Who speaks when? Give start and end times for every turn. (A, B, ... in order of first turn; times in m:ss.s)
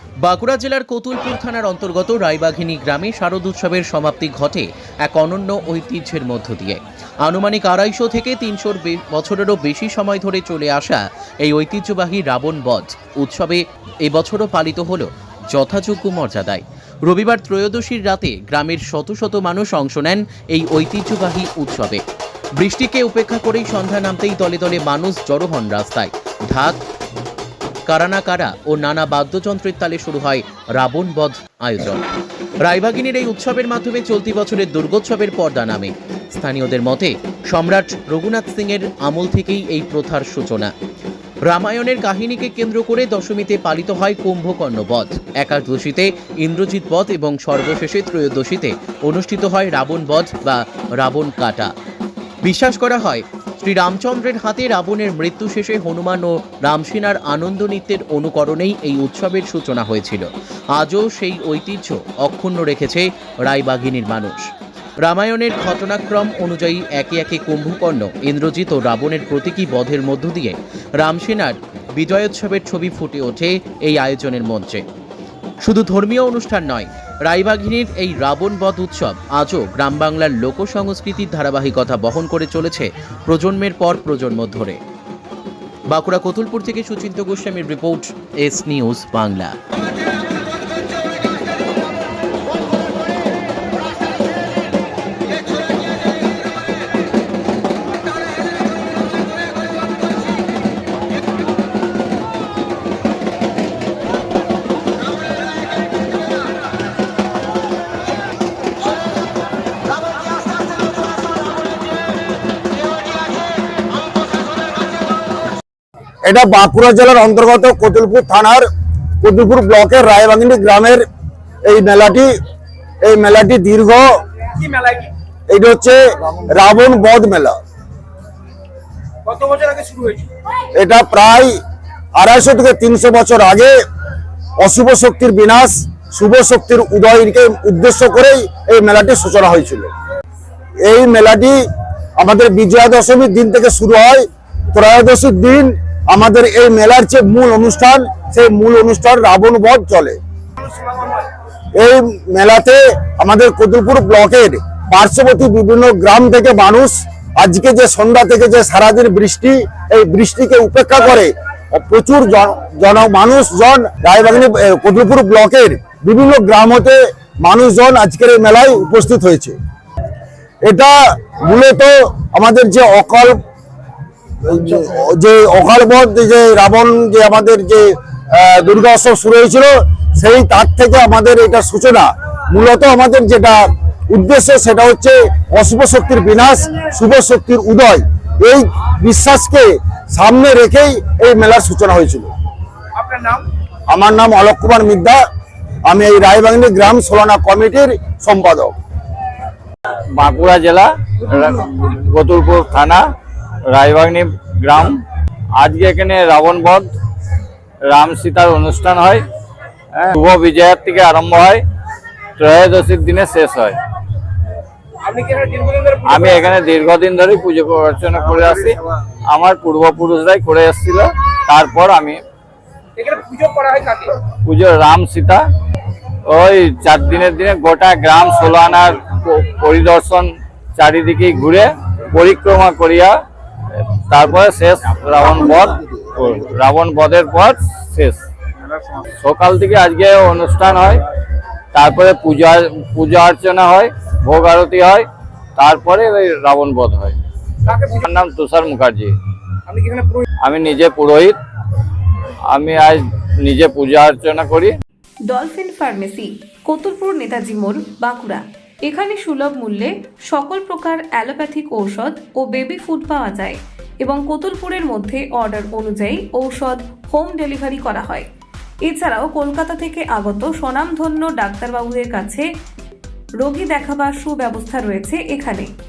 0:00.2-0:22.0 A
0:22.6-0:26.8 A
0:27.8-0:32.0 A
0:32.6-0:40.7 A
0:41.4-0:51.7 A
0:52.4-1:04.5 A
1:05.0-1:14.8 A
1:15.6-1:24.8 A
1:25.9-1:29.6 A
1:56.2-1:58.7 B
1:59.2-2:01.0 B
2:01.6-2:02.3 B
2:03.0-2:04.4 B
2:04.5-2:05.1 C
2:05.5-2:07.6 B
2:09.2-2:10.3 C
2:10.7-2:11.6 B
2:12.1-2:13.7 B
2:14.6-2:19.9 B
2:20.8-2:21.6 B
2:22.2-2:30.2 B
2:31.8-2:49.6 B
2:50.6-2:53.4 B
2:54.4-3:12.3 B
3:13.0-3:13.5 C
3:13.9-3:15.2 B
3:15.8-3:18.7 B
3:20.1-3:23.0 D
3:23.7-3:25.0 D
3:25.6-3:26.9 D
3:27.9-3:29.2 D
3:29.9-3:31.6 D
3:32.4-3:33.8 D
3:35.0-3:36.4 C
3:36.0-3:42.2 D
3:43.0-3:44.1 C
3:44.2-3:45.4 D
3:46.2-3:53.2 D
3:53.7-3:58.2 D
3:59.0-4:01.0 D
4:01.7-4:07.2 D
4:07.6-4:08.0 C
4:07.7-4:09.1 D
4:09.7-4:10.2 C
4:10.4-4:11.4 D
4:12.5-4:14.7 D
4:15.3-4:28.3 E
4:28.8-4:32.5 E
4:33.4-4:35.7 E